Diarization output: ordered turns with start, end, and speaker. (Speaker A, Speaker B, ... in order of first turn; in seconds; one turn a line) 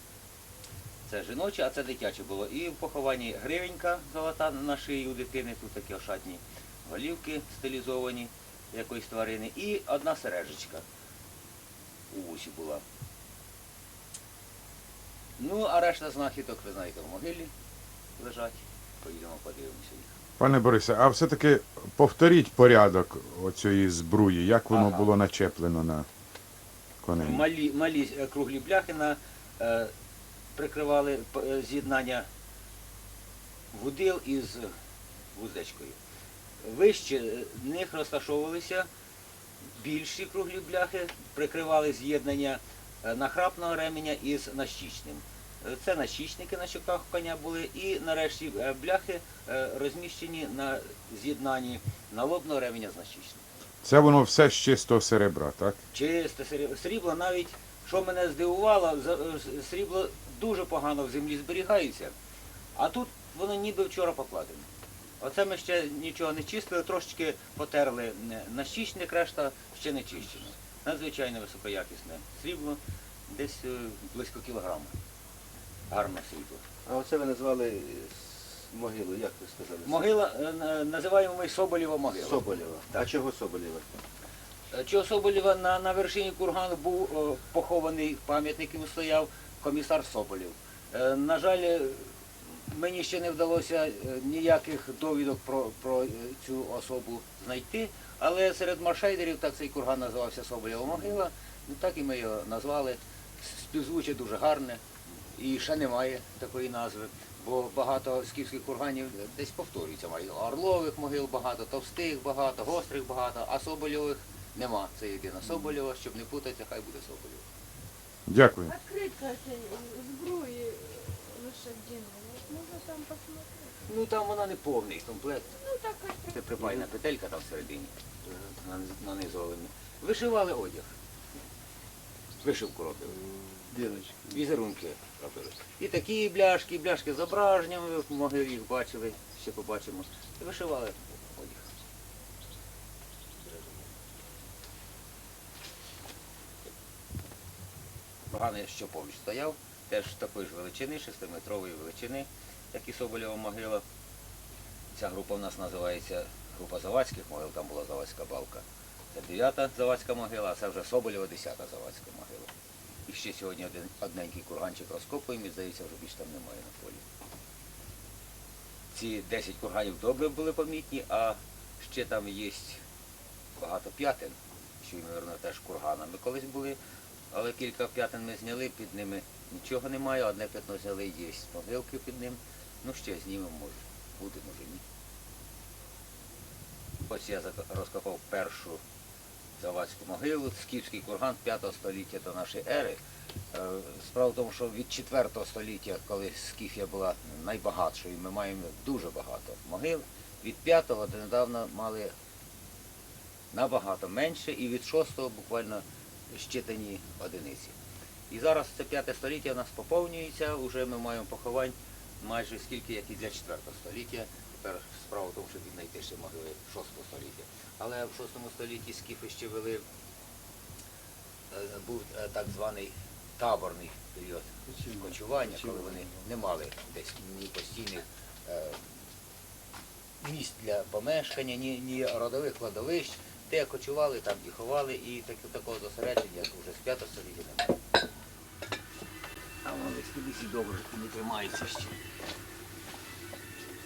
Speaker A: 1.1-10.8
Speaker A: 12.1-12.8
Speaker A: 15.4-17.5
Speaker A: 18.2-20.1
Speaker B: 20.4-26.1
Speaker A: 24.7-25.1
Speaker B: 27.0-27.4
Speaker A: 27.2-29.9
Speaker A: 30.6-32.3
Speaker A: 33.7-34.7
Speaker A: 35.3-36.0
Speaker A: 36.6-38.9
Speaker A: 39.8-53.4
Speaker B: 53.8-55.8
Speaker A: 55.9-62.1
Speaker A: 62.8-64.7
Speaker A: 65.2-74.9
Speaker A: 75.9-76.6
Speaker C: 76.8-80.1
Speaker A: 79.8-82.5
Speaker C: 82.2-83.8
Speaker A: 84.7-92.1
Speaker A: 92.7-104.8
Speaker A: 105.3-117.4
Speaker B: 118.3-118.7
Speaker D: 118.7-123.7
Speaker A: 123.9-125.6
Speaker D: 125.6-126.3
Speaker A: 126.3-127.9
Speaker A: 128.6-130.9
Speaker A: 132.4-133.2
Speaker C: 133.7-134.3
Speaker A: 134.3-141.6
Speaker A: 143.4-143.8
Speaker A: 148.3-153.8
Speaker A: 154.9-162.5
Speaker A: 163.1-167.0
Speaker A: 168.9-172.8
Speaker A: 173.6-176.8
Speaker A: 177.3-184.8
Speaker A: 187.1-188.8
Speaker A: 189.6-193.0
Speaker A: 193.5-202.1
Speaker A: 203.5-207.7
Speaker A: 208.3-219.8
Speaker A: 221.5-228.9
Speaker C: 224.8-225.7
Speaker A: 230.2-237.8
Speaker A: 239.6-242.0